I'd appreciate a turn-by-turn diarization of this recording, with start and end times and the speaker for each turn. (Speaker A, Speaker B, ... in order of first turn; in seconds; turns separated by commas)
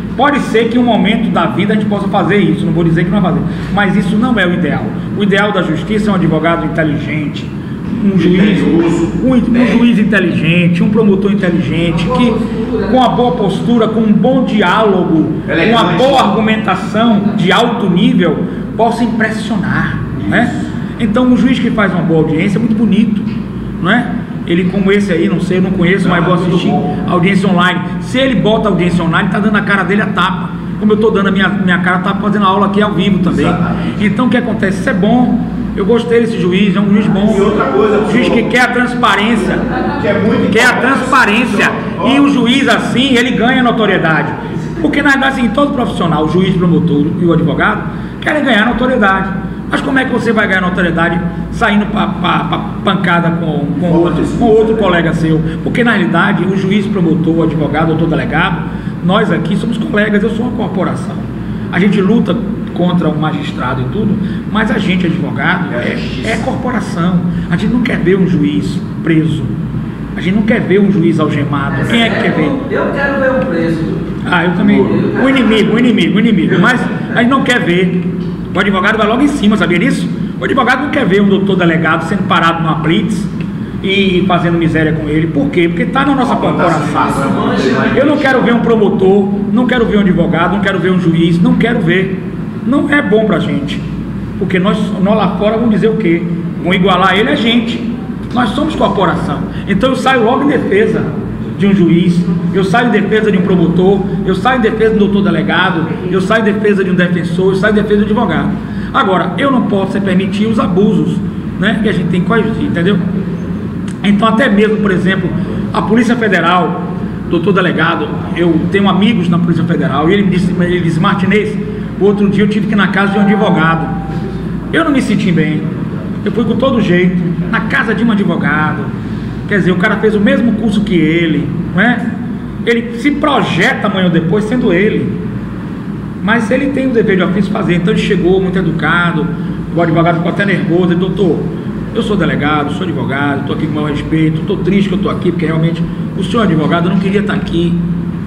Speaker A: 0.2-23.3, Speaker B: 8.1-9.9, Speaker C: 11.8-13.1, Speaker B: 15.5-16.4, Speaker B: 20.1-20.7, Speaker A: 23.8-39.6, Speaker B: 26.0-27.0, Speaker B: 33.2-34.0, Speaker B: 37.2-38.5, Speaker C: 39.6-40.1, Speaker B: 40.0-42.3, Speaker A: 40.5-69.5, Speaker B: 53.8-54.9, Speaker B: 65.7-66.5, Speaker A: 70.2-72.6, Speaker C: 71.7-74.1, Speaker A: 74.2-83.3, Speaker B: 74.6-74.9, Speaker C: 74.7-75.9, Speaker C: 76.5-77.2, Speaker A: 83.8-93.8, Speaker B: 86.2-88.5, Speaker C: 86.9-88.3, Speaker A: 94.4-113.0, Speaker A: 114.0-124.0, Speaker A: 124.7-125.7, Speaker A: 126.2-128.9, Speaker A: 129.5-132.1, Speaker A: 132.6-135.2, Speaker A: 136.2-147.8